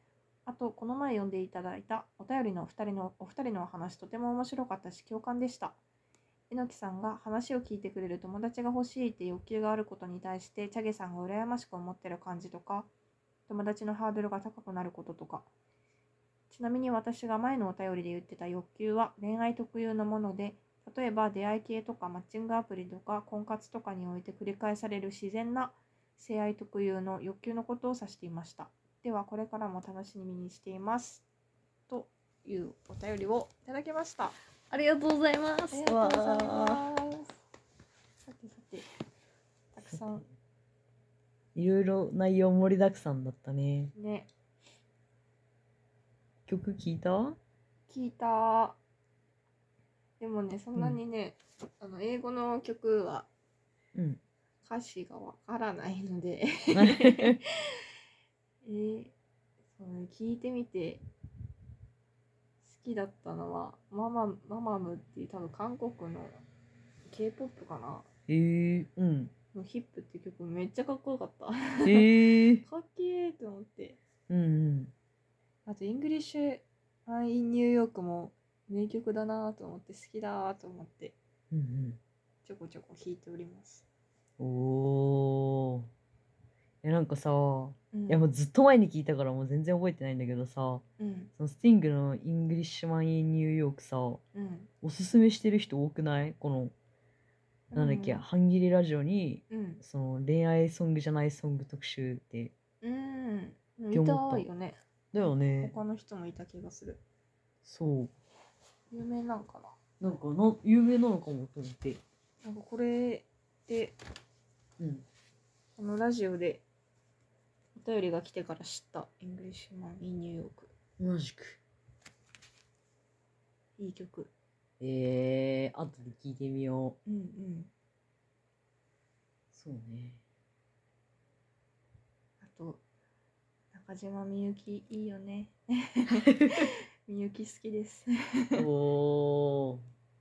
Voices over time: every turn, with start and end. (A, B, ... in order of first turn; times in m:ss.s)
0:00.4-0:05.8 A
0:06.5-0:12.9 A
0:13.5-0:15.5 A
0:16.5-0:31.2 A
0:31.9-0:34.4 A
0:34.7-0:36.8 B
0:35.7-0:37.3 A
0:38.2-0:38.8 A
0:39.7-0:40.2 A
0:41.5-0:43.9 B
0:43.9-0:44.3 A
0:46.5-0:47.4 B
0:47.9-0:48.8 A
0:50.2-0:53.3 A
0:53.9-0:54.2 B
0:54.6-0:57.5 A
0:56.7-0:57.4 B
0:58.6-0:59.1 A
0:59.7-1:01.0 A
1:02.6-1:06.4 A
1:07.1-1:08.1 A
1:08.3-1:09.3 B
1:09.5-1:14.0 A
1:11.8-1:12.6 B
1:14.3-1:14.9 B
1:15.6-1:21.2 A
1:21.5-1:22.0 B
1:22.4-1:23.8 A
1:24.4-1:25.9 B
1:26.8-1:30.8 B
1:27.9-1:28.3 A
1:31.0-1:31.3 A
1:31.4-1:34.2 B
1:34.3-1:34.7 A
1:34.8-1:36.7 B
1:37.7-1:38.2 A
1:37.7-1:42.5 B
1:39.5-1:39.8 A
1:42.8-1:47.0 A
1:43.9-1:44.5 B
1:45.1-1:45.8 B
1:47.6-1:48.1 B
1:48.9-1:49.8 A
1:50.0-1:52.0 B
1:52.4-1:54.0 A
1:54.8-1:55.1 B
1:55.8-1:56.6 A
1:57.7-2:00.7 A
2:01.0-2:01.6 B
2:03.8-2:04.3 A
2:04.8-2:07.0 B
2:07.0-2:07.7 A
2:09.5-2:10.2 B
2:12.4-2:12.8 A
2:13.7-2:18.6 A
2:18.6-2:19.8 B